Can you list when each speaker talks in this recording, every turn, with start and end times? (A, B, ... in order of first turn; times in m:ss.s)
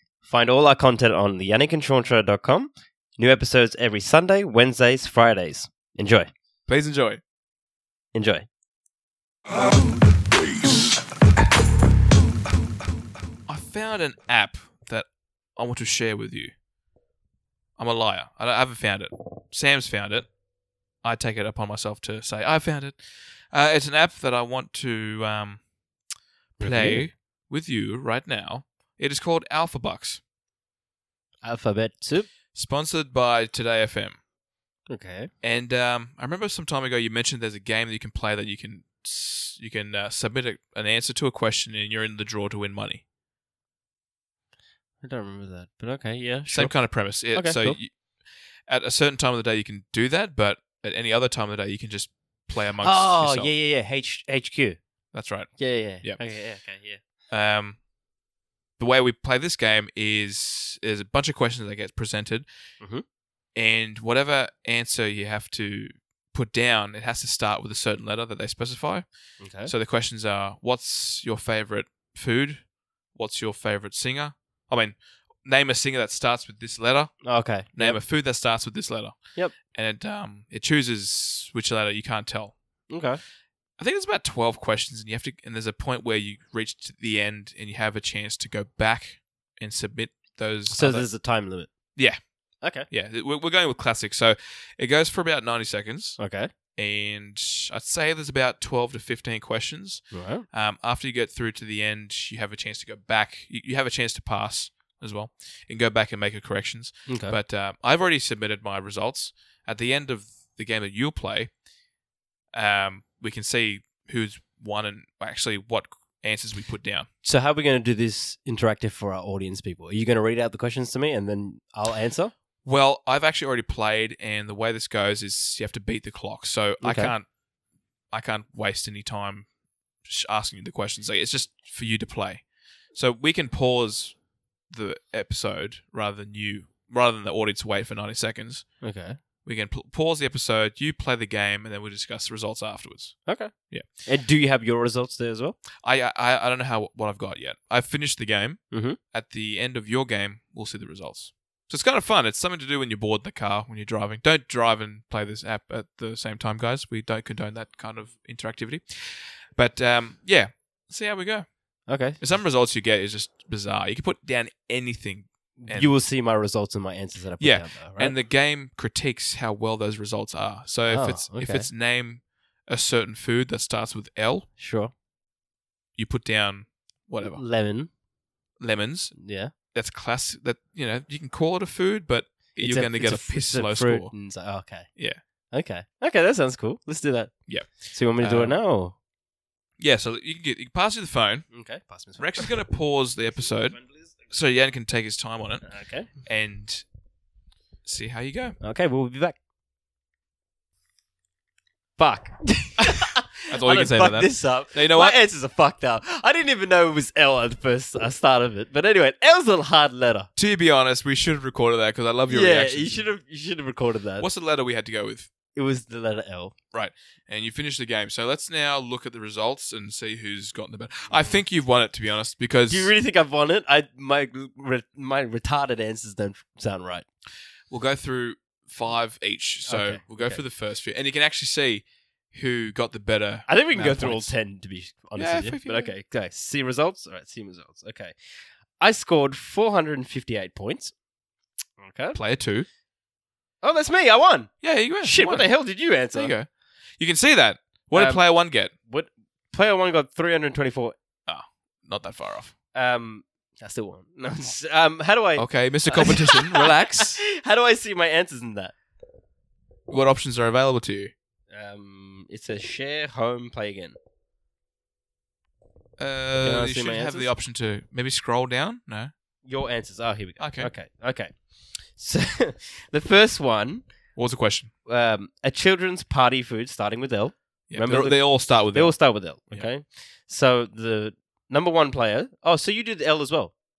0:00.3-0:06.3 A
0:06.7-0:07.2 B
0:08.1-0:08.4 A
0:13.5-0:16.5 B
0:17.8-0:20.3 B
0:21.0-0:25.6 B
0:26.6-0:30.2 B
0:26.6-0:27.1 A
0:31.4-0:32.3 A
0:32.5-0:34.2 B
0:34.9-0:35.3 A
0:35.4-0:43.0 B
0:45.0-0:47.8 A
0:46.5-0:48.0 B
0:48.6-0:53.5 B
0:52.8-0:54.8 A
0:55.1-0:56.2 B
0:55.6-0:57.0 A
0:57.3-0:57.8 B
0:58.8-1:02.4 B
1:03.5-1:09.0 B
1:09.4-1:09.7 A
1:09.6-1:17.2 B
1:17.2-1:18.0 A
1:17.7-1:22.5 B
1:22.9-1:23.2 A
1:23.8-1:31.1 B
1:30.7-1:31.7 A
1:32.6-1:32.9 A
1:32.9-1:36.2 B
1:36.2-1:36.5 A
1:36.7-1:51.5 B
1:40.1-1:40.4 A
1:47.0-1:47.4 A
1:52.5-1:57.1 B
1:57.2-2:02.3 A
2:02.6-2:07.3 B
2:06.8-2:07.1 A
2:08.1-2:09.5 B
2:10.0-2:18.8 B
2:18.8-2:19.2 A
2:19.4-2:23.9 B
2:23.2-2:25.6 A
2:25.8-2:45.9 B
2:28.7-2:29.0 A
2:41.9-2:42.2 A
2:45.6-2:48.1 A
2:47.4-2:54.4 B
2:50.9-2:51.7 A
2:54.6-2:54.9 A
2:56.0-2:57.4 B
2:57.2-2:57.9 A
2:58.6-2:59.1 B
2:59.2-2:59.5 A
2:59.7-3:04.1 B
3:02.6-3:04.9 A
3:05.5-3:07.4 A
3:07.5-3:08.6 B
3:07.9-3:08.9 A
3:09.8-3:11.4 B
3:11.5-3:12.5 A
3:12.2-3:16.8 B
3:13.5-3:14.0 A
3:15.6-3:16.1 A
3:17.8-3:18.6 B
3:18.6-3:19.4 A
3:22.0-3:30.3 A
3:23.5-3:25.2 B
3:30.4-3:33.1 B
3:32.3-3:34.3 A
3:34.2-3:35.3 B
3:35.5-3:36.5 A
3:36.7-3:42.9 B
3:41.1-3:41.4 A
3:42.7-3:47.0 A
3:47.7-3:54.3 B
3:49.7-3:50.4 A
3:53.5-3:58.1 A
3:55.2-3:55.9 B
3:58.8-4:00.9 A
4:01.8-4:02.2 A
4:02.1-4:02.7 B
4:03.6-4:06.3 A
4:04.6-4:05.5 B
4:06.1-4:06.5 B
4:07.0-4:08.7 B
4:07.9-4:08.2 A
4:08.9-4:10.9 A
4:11.3-4:12.5 B
4:12.7-4:18.7 A
4:15.4-4:17.2 B
4:19.9-4:21.1 B
4:21.5-4:24.0 A
4:26.0-4:29.1 B
4:26.4-4:27.3 A
4:29.4-4:31.4 A
4:30.4-4:30.7 B
4:31.9-4:33.8 A
4:34.2-4:34.7 B
4:34.8-4:43.5 A
4:37.7-4:39.0 B